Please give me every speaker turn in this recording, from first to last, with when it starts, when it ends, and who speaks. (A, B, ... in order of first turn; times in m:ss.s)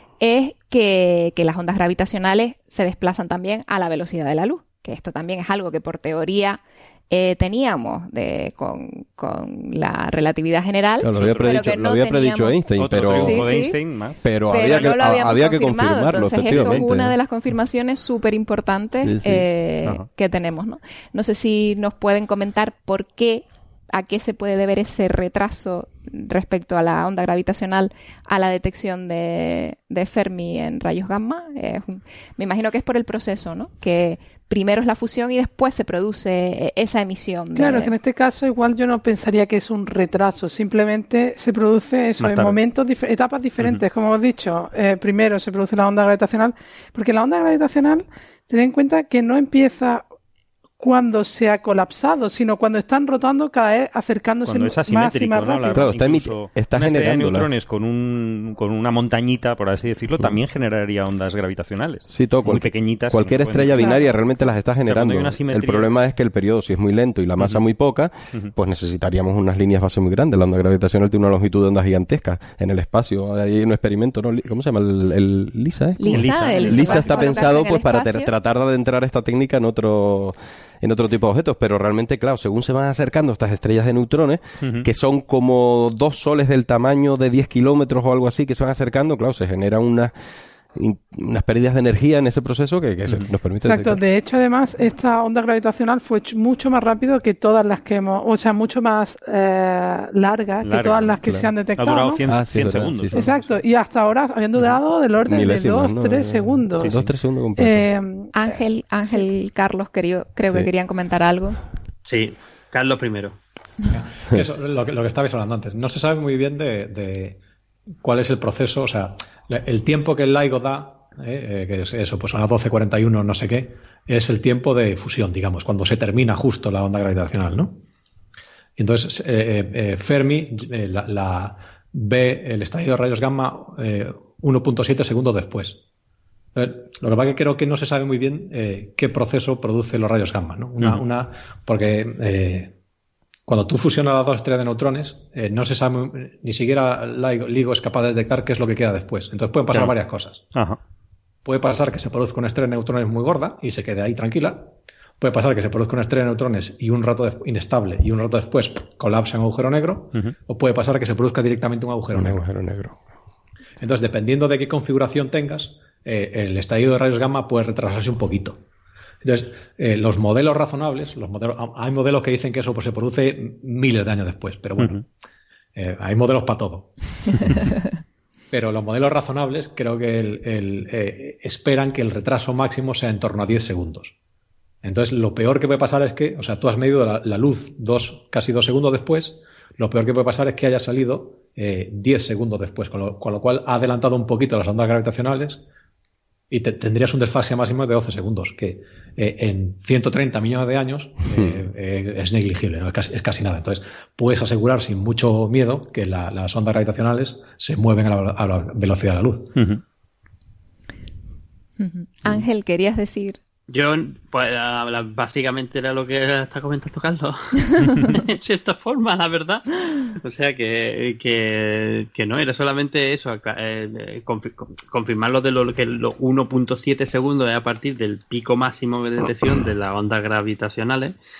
0:00.2-0:12.6 A
0:11.0-0:13.4 B
0:11.1-0:11.7 C
0:12.8-0:14.2 C
0:13.1-0:13.8 A
0:14.2-0:17.1 B
0:14.5-0:37.9 A
0:16.4-0:16.8 C
0:19.0-0:19.4 B
0:37.5-0:50.0 D
0:42.2-0:42.6 C
0:50.8-0:55.9 D
0:54.4-1:04.0 C
0:55.7-0:57.5 B
1:02.1-1:30.1 B
1:03.7-1:04.0 D
1:04.8-1:06.0 C
1:16.0-1:18.3 A
1:16.1-1:17.4 C
1:30.7-1:34.0 B
1:33.6-1:42.2 D
1:40.6-1:43.6 C
1:42.2-1:43.3 B
1:43.1-1:46.9 D
1:45.2-1:47.9 B
1:46.8-1:47.1 C
1:47.6-1:48.5 D
1:48.3-1:51.6 A
1:52.0-1:53.4 E
1:53.9-1:57.4 F
1:58.0-2:07.8 F
2:08.8-2:15.8 F
2:16.6-2:22.7 F
2:23.5-2:30.5 F
2:31.4-2:42.4 F
2:42.1-2:43.0 B
2:43.8-2:48.6 F
2:49.2-2:55.0 F
2:55.8-2:57.8 F
2:58.5-3:04.1 F
3:04.8-3:15.6 F
3:16.5-3:29.6 F
3:21.3-3:21.6 B
3:31.8-3:33.4 A
3:33.7-3:51.2 E